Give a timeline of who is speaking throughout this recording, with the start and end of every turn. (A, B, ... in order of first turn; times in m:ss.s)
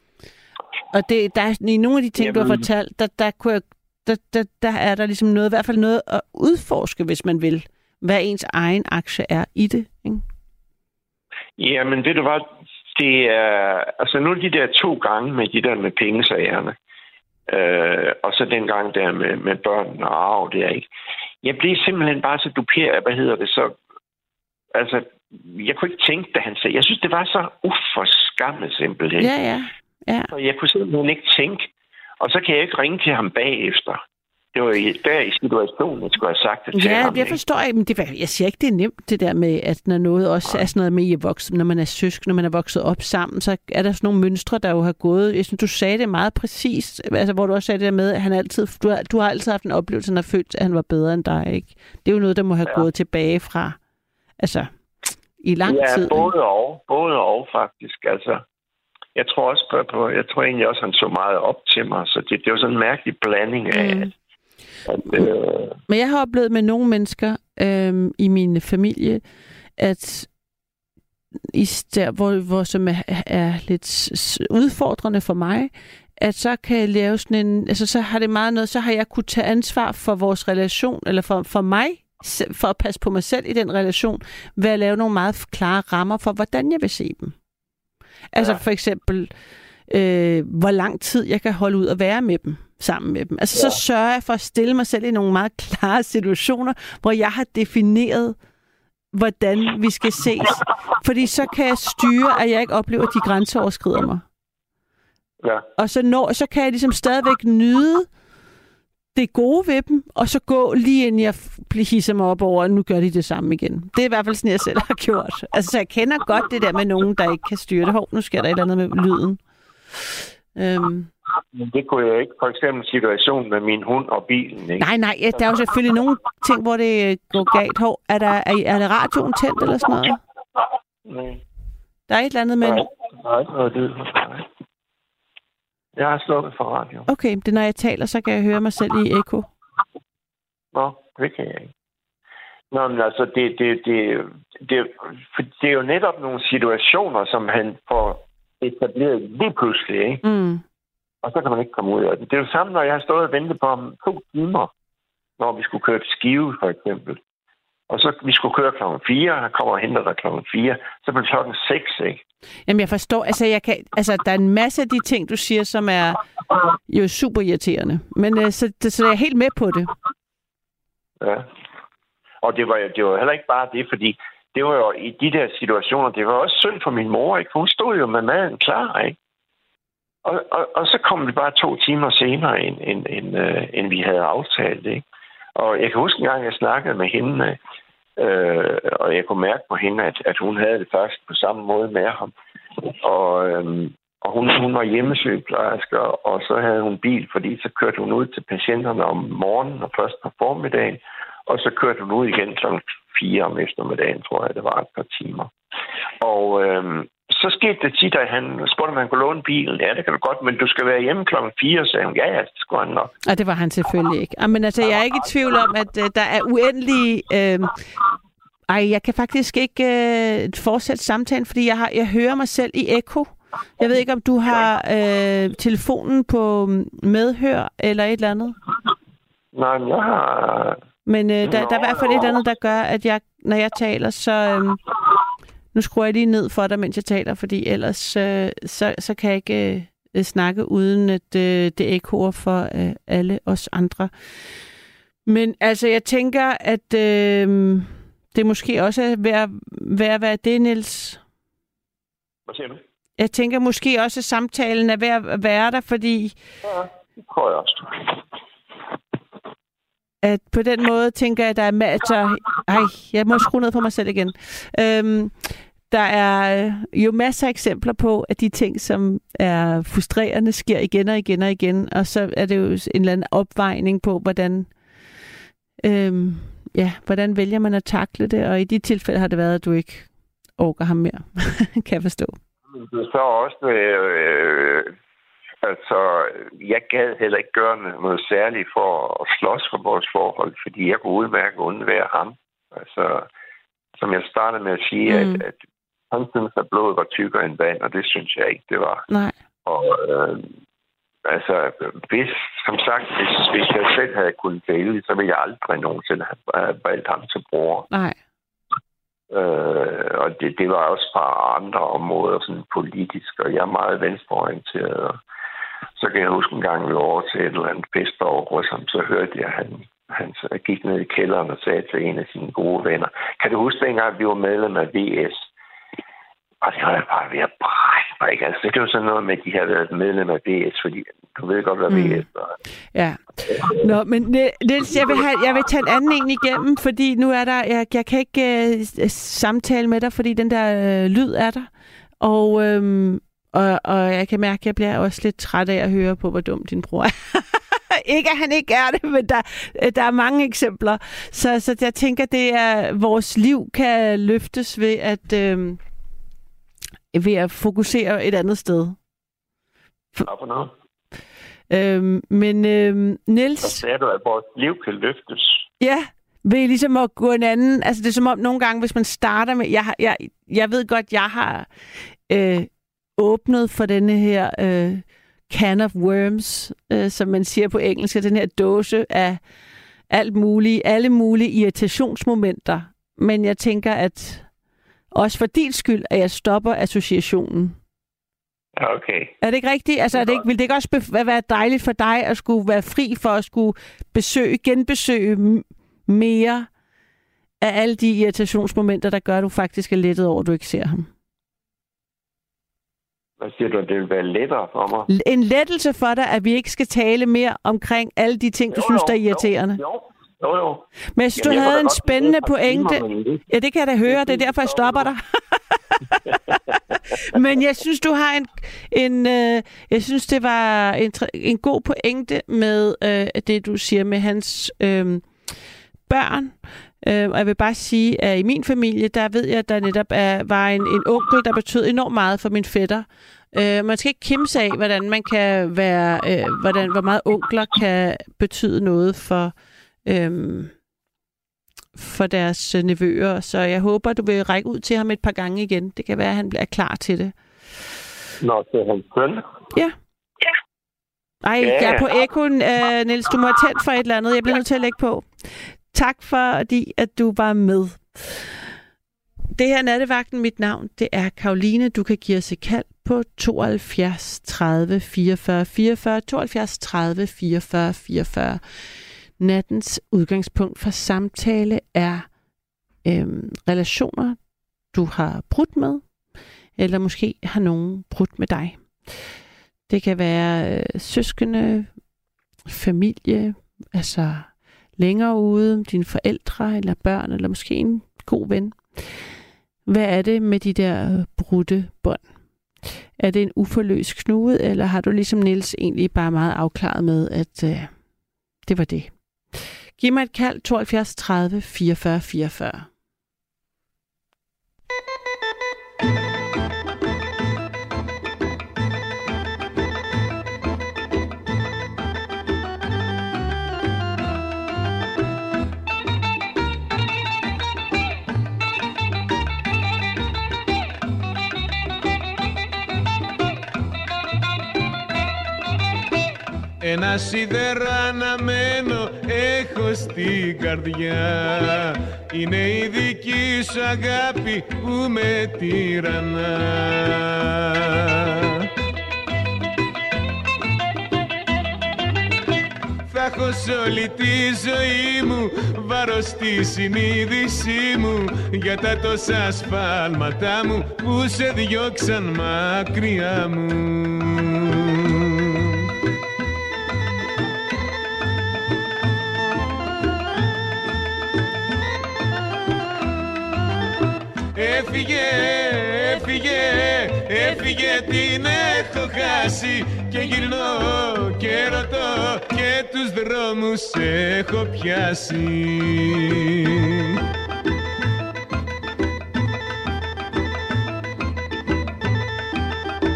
0:00.9-0:10.2 A
0:02.2-0:02.7 B
0:11.6-0:16.8 B
0:17.5-0:20.9 B
0:21.4-0:23.8 B
0:24.7-0:29.3 B
0:29.2-0:30.3 A
0:30.3-0:31.7 B
0:32.2-0:34.0 B
0:34.5-0:37.4 B
0:36.7-0:53.8 A
0:54.4-0:54.7 A
0:55.4-0:56.3 A
0:55.6-0:58.4 B
0:59.2-1:04.1 B
1:03.7-1:04.1 A
1:04.9-1:05.8 B
1:05.9-1:09.2 A
1:09.8-1:10.3 A
1:11.5-1:27.4 A
1:28.3-1:29.3 A
1:28.4-1:28.6 B
1:29.9-1:38.4 A
1:39.1-1:44.2 A
1:45.4-1:45.7 B
1:45.8-1:48.1 A
1:49.1-1:59.4 A
2:00.5-2:01.1 A
2:01.5-2:04.9 B
2:04.8-2:10.2 A
2:11.0-2:11.4 B
2:12.1-2:12.9 A
2:12.6-2:14.5 B
2:16.0-2:17.1 B
2:17.1-2:19.5 A
2:20.7-2:21.7 B
2:22.7-2:30.2 B
2:30.2-2:30.6 A
2:31.2-2:34.7 B
2:35.4-2:37.2 B
2:37.9-2:42.2 B
2:42.7-2:46.2 A
2:46.9-2:49.9 A
2:51.2-2:51.5 B
2:52.4-2:59.2 B
3:00.2-3:05.0 B
3:05.6-3:07.6 B
3:08.2-3:12.3 B
3:12.8-3:25.5 B
3:26.2-3:33.1 B
3:33.2-3:37.8 A
3:38.7-3:48.6 A
3:49.5-3:50.8 B
3:51.1-3:54.8 A
3:51.4-3:52.4 B
3:55.7-4:04.1 A
4:05.3-4:11.2 A
4:12.5-4:12.8 B
4:13.2-4:16.4 A
4:16.6-4:18.2 B
4:20.2-4:34.7 A
4:35.8-4:42.4 A
4:42.7-4:44.9 B
4:45.6-4:53.3 B
4:54.0-4:55.6 B
4:55.1-4:55.4 A
4:56.1-4:59.0 B
4:59.1-4:59.4 A
4:59.6-5:00.5 B
5:01.3-5:07.9 B
5:07.9-5:08.2 A
5:09.3-5:15.2 B
5:16.0-5:25.4 B
5:26.6-5:32.6 B
5:31.9-5:32.2 A
5:32.9-5:41.7 A
5:33.5-5:33.9 B
5:34.9-5:35.2 B
5:42.2-5:55.8 A
5:57.1-5:59.0 A
6:00.2-6:00.7 B
6:01.7-6:03.8 A
6:03.6-6:05.6 B
6:05.8-6:11.7 A
6:12.3-6:19.4 A
6:20.1-6:24.5 A
6:25.1-6:27.8 A
6:28.8-6:29.4 B
6:29.4-6:36.7 A
6:37.6-6:41.1 A
6:43.4-6:45.1 B
6:45.1-6:49.8 A
6:48.7-6:53.4 B
6:51.2-6:56.6 A
6:54.1-6:55.1 B
6:56.3-6:56.8 B
6:57.2-7:05.3 A
7:06.1-7:19.5 A
7:20.0-7:20.7 A
7:22.0-7:27.4 A
7:28.4-7:29.4 B
7:31.4-7:38.7 A
7:31.6-7:32.2 B
7:39.5-7:52.3 A
7:53.0-7:54.4 A
7:54.9-7:56.0 A
7:56.8-7:59.2 A
7:59.9-8:01.9 A
8:02.7-8:09.3 A
8:09.9-8:12.2 A
8:12.8-8:17.9 A
8:18.6-8:22.9 A
8:46.8-8:58.7 C
9:03.1-9:15.8 C
9:24.5-9:37.2 C